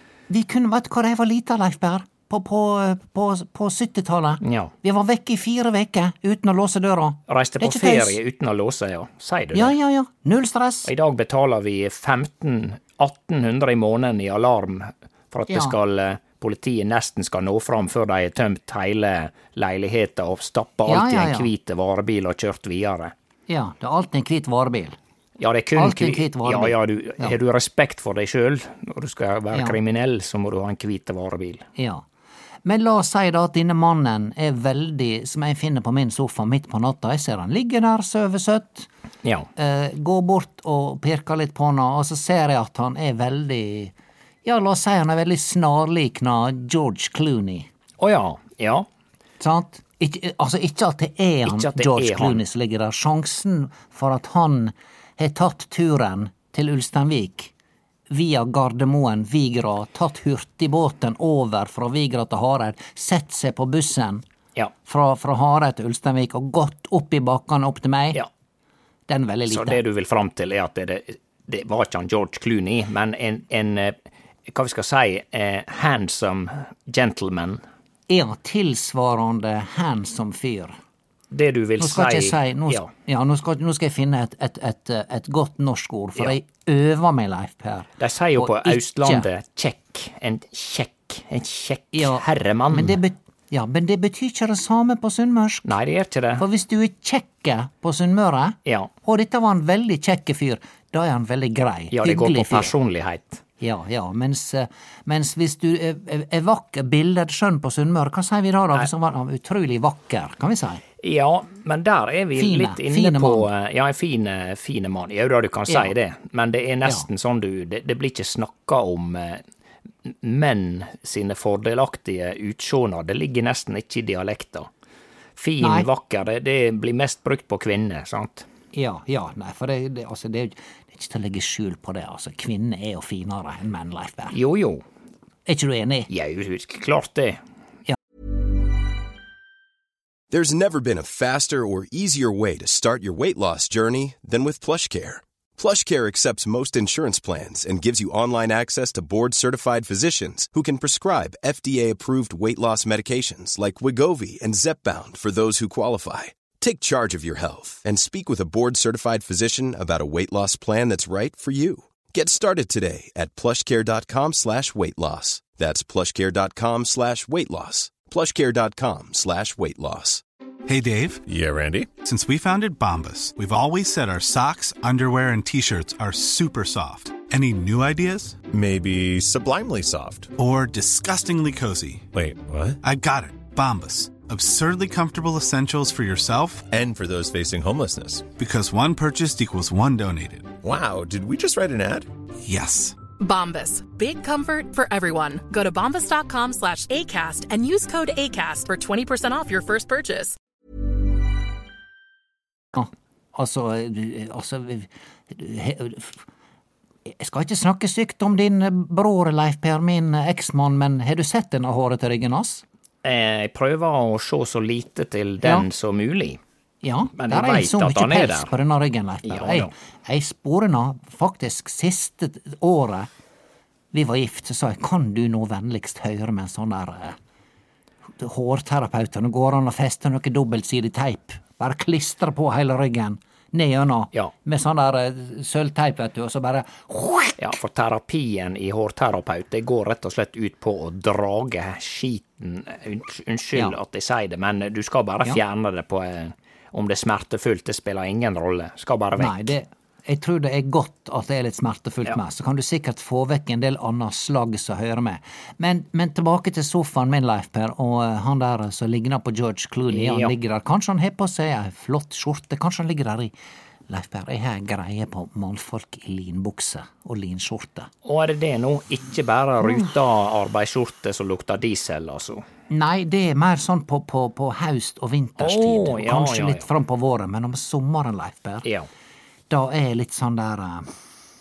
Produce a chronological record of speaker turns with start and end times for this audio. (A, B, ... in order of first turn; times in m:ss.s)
0:00.3-0:08.2 A
0:04.4-0:04.7 B
0:07.3-0:09.7 B
0:09.5-0:10.9 A
0:10.8-0:23.1 B
0:15.5-0:15.8 A
0:20.8-0:21.5 A
0:23.5-0:25.0 A
0:25.4-0:31.7 B
0:25.7-0:27.3 A
0:31.8-0:32.0 A
0:32.6-0:38.9 A
0:39.2-0:39.5 B
0:39.6-0:47.7 A
0:48.0-0:48.9 B
0:49.4-0:57.5 A
0:51.4-0:52.4 B
0:58.1-1:04.2 A
1:04.8-1:08.2 A
1:09.1-1:09.8 A
1:09.5-1:14.0 B
1:14.5-1:17.6 B
1:18.1-1:20.8 A
1:21.3-1:22.9 B
1:21.8-1:29.3 A
1:28.0-1:33.0 B
1:31.9-1:35.7 A
1:35.6-1:36.4 B
1:36.4-1:42.7 A
1:38.6-1:38.9 B
1:41.9-1:43.4 B
1:43.6-1:50.8 A
1:51.0-1:59.4 B
1:52.3-1:53.5 A
2:00.0-2:04.7 B
2:05.4-2:08.4 B
2:05.6-2:05.9 A
2:08.7-2:14.4 A
2:14.3-2:14.8 B
2:15.4-2:16.1 A
2:16.1-2:17.4 B
2:20.3-2:50.2 C
2:50.7-2:51.2 D
2:51.2-2:51.9 E
2:52.0-2:58.4 D
2:58.5-3:00.3 E
3:00.4-3:02.1 D
3:02.1-3:02.8 E
3:02.8-3:06.7 D
3:06.7-3:08.3 E
3:08.4-3:10.5 D
3:10.6-3:12.1 E
3:12.4-3:13.0 D
3:13.2-3:20.4 F
3:22.7-3:26.2 A
3:27.0-3:32.6 A
3:33.0-3:36.4 B
3:35.4-3:35.7 A
3:36.8-3:43.1 A
3:37.2-3:38.5 B
3:39.2-3:39.7 B
3:43.9-3:47.2 A
3:48.2-3:57.6 A
3:57.4-4:09.4 B
4:09.2-4:23.3 A
4:19.9-4:20.3 B
4:23.9-4:27.9 A
4:28.0-4:32.4 B
4:29.6-4:29.9 A
4:32.7-4:38.6 A
4:35.4-4:36.6 B
4:38.6-4:38.9 B
4:39.5-4:40.9 A